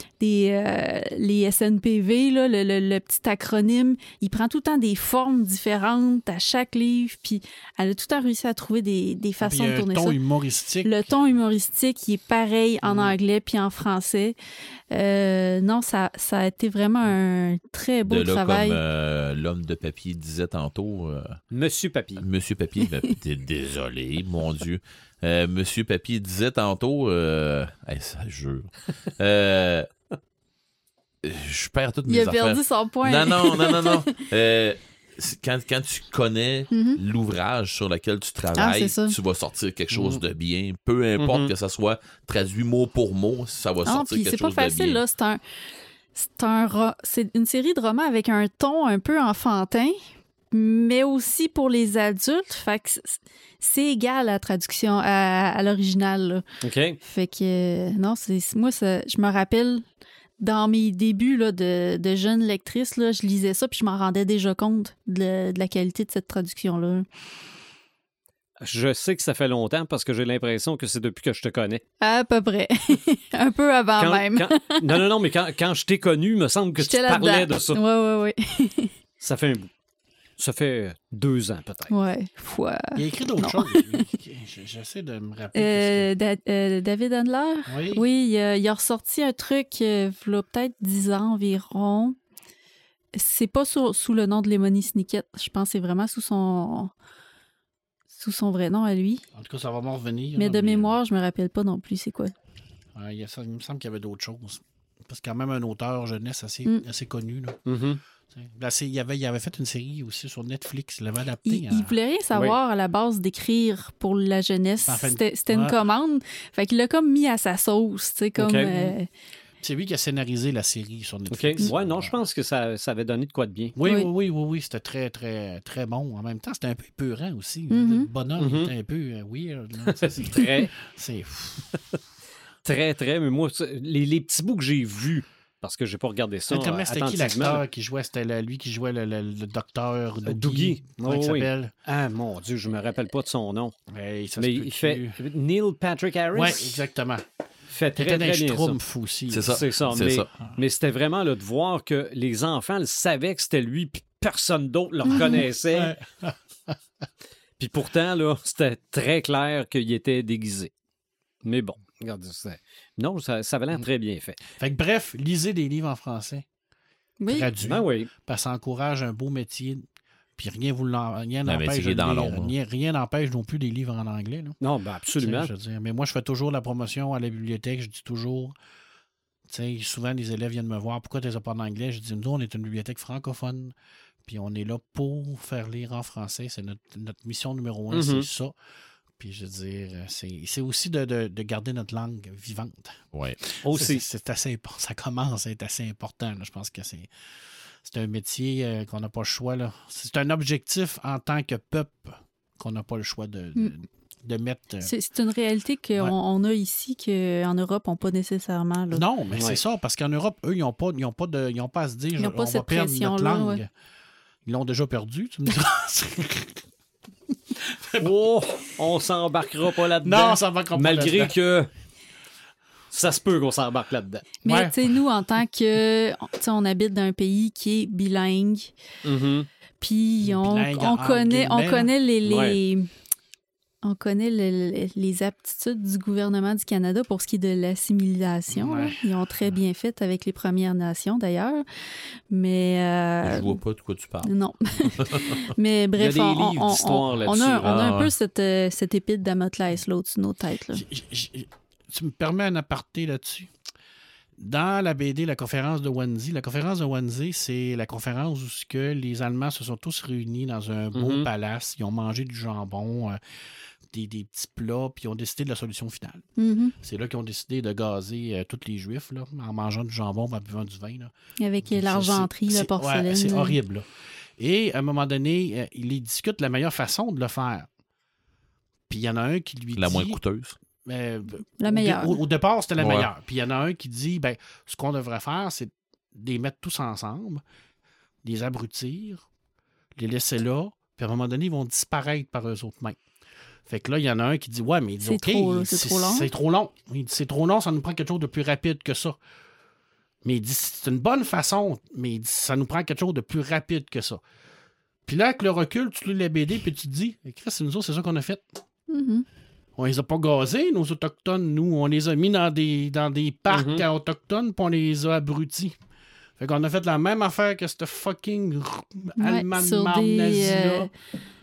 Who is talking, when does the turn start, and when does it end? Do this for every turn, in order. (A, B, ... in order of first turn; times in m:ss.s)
0:00.2-0:10.2 A
0:09.4-0:10.9 B
0:10.8-0:14.4 A
0:12.8-0:13.1 B
0:14.9-0:18.8 A
0:18.0-0:21.3 C
0:21.5-0:22.2 D
0:22.2-0:29.9 C
0:31.2-0:45.0 C
0:32.1-0:34.1 A
0:36.7-0:37.0 A
0:38.6-0:39.2 A
0:41.2-0:41.5 D
0:43.8-0:45.4 A
0:46.2-0:50.0 A
0:50.5-0:56.4 A
0:56.6-0:57.0 D
0:57.0-0:59.8 A
1:00.4-1:07.0 A
1:08.6-1:11.8 D
1:12.0-1:14.9 A
1:14.0-1:17.8 D
1:16.8-1:18.9 A
1:19.2-1:19.7 D
1:20.4-1:21.9 D
1:21.9-1:24.0 A
1:23.0-1:26.1 B
1:25.5-1:32.2 A
1:27.7-1:28.0 B
1:33.1-1:36.9 A
1:38.1-1:39.2 A
1:39.3-1:41.0 B
1:40.4-1:42.3 A
1:42.9-1:47.6 B
1:47.6-1:48.0 D
1:48.3-1:51.9 B
1:51.4-1:59.1 A
1:54.9-1:55.8 B
1:58.4-1:58.7 D
1:58.7-1:58.9 B
1:59.6-2:02.2 B
2:01.3-2:03.7 D
2:03.7-2:11.8 B
2:03.8-2:04.1 A
2:07.7-2:08.1 A
2:08.4-2:08.7 D
2:09.8-2:10.7 D
2:12.6-2:17.6 D
2:16.5-2:21.7 B
2:20.2-2:23.7 D
2:23.9-2:25.2 B
2:24.4-2:26.7 D
2:26.3-2:27.2 B
2:27.7-2:28.8 D
2:28.0-2:29.6 B
2:29.3-2:30.3 C
2:29.5-2:35.9 D
2:35.1-2:35.4 A
2:35.7-2:36.7 B
2:37.6-2:40.7 D
2:41.4-2:44.4 D
2:44.6-2:46.4 B
2:47.2-2:47.5 A
2:47.3-2:49.8 B
2:47.6-2:48.1 D
2:50.4-2:54.6 B
2:51.4-2:52.5 C
2:54.6-2:55.5 D
2:55.2-2:58.5 B
2:59.5-3:03.7 B
3:04.2-3:08.5 B
3:07.9-3:08.3 D
3:09.2-3:17.1 B
3:13.6-3:14.0 D
3:17.8-3:24.9 B
3:24.8-3:29.0 A
3:28.9-3:33.7 B
3:32.2-3:33.6 A
3:34.4-3:36.6 B
3:37.6-3:38.1 B
3:38.0-3:41.7 D
3:40.0-3:41.3 B
3:42.9-3:44.2 D
3:44.4-3:44.9 B
3:44.4-3:48.7 A
3:49.0-3:49.5 D
3:49.8-3:52.9 A
3:50.2-3:51.9 B
3:52.2-3:52.6 D
3:53.8-4:01.6 A
3:58.5-3:59.5 B
4:02.3-4:03.6 A
4:03.2-4:04.3 C
4:04.2-4:10.8 A
4:05.0-4:05.4 C
4:06.0-4:07.8 D
4:07.6-4:08.1 C
4:10.7-4:13.5 B
4:14.4-4:23.2 B
4:20.9-4:21.3 D
4:23.9-4:26.3 B
4:26.4-4:26.7 A
4:26.8-4:33.8 B
4:31.4-4:33.6 A
4:34.4-4:37.7 B
4:38.9-4:40.2 B
4:39.8-4:40.6 C
4:40.8-4:47.4 B
4:41.6-4:42.2 A
4:42.8-4:43.1 C
4:48.2-4:49.2 B
4:50.0-4:53.0 B
4:53.7-4:59.2 B
4:55.0-4:56.3 A
5:00.2-5:04.2 B
5:05.1-5:08.4 B
5:08.9-5:09.2 A
5:09.8-5:15.7 B
5:13.5-5:13.8 D
5:16.4-5:20.9 B
5:19.2-5:20.9 A